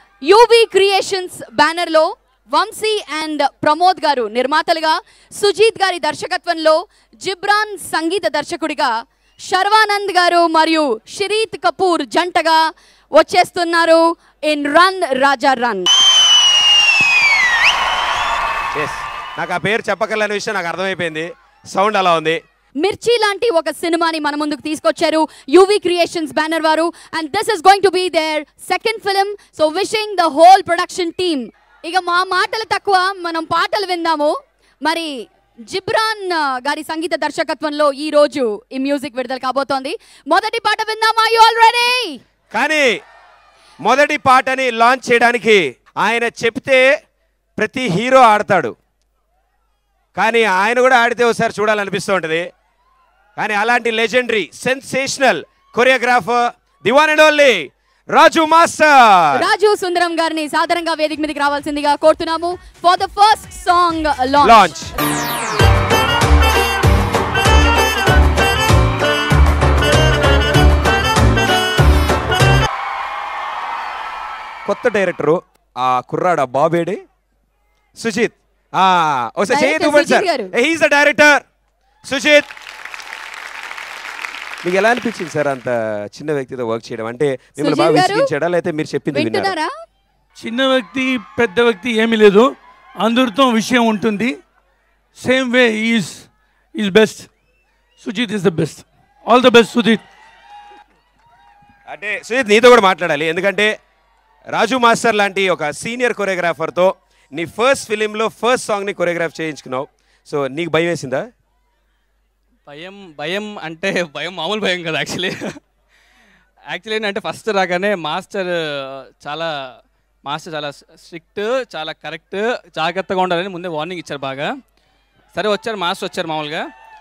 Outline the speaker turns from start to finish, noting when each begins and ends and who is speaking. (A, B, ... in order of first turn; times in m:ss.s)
0:00.3-0:08.9 A
0:09.4-0:12.6 A
0:13.2-0:15.9 A
0:18.7-0:22.4 B
0:22.8-0:34.3 A
0:34.8-0:35.1 A
0:35.7-0:42.2 A
0:42.5-0:42.9 B
0:43.8-0:46.8 B
0:47.6-0:48.8 B
0:50.2-0:52.5 B
0:53.4-0:59.4 B
0:59.4-1:04.7 A
1:04.4-1:04.9 B
1:14.7-1:17.0 B
1:18.0-1:21.4 B
1:19.5-1:20.5 A
1:22.0-1:22.5 B
1:24.6-1:29.5 B
1:27.6-1:28.3 A
1:29.1-1:29.7 A
1:30.4-1:32.5 C
1:33.0-1:34.3 C
1:35.2-1:37.3 C
1:38.0-1:40.0 C
1:41.9-1:43.7 B
1:44.5-1:51.3 B
1:52.7-1:55.6 D
1:56.7-1:59.5 D
2:00.3-2:04.5 D
2:05.3-2:06.6 D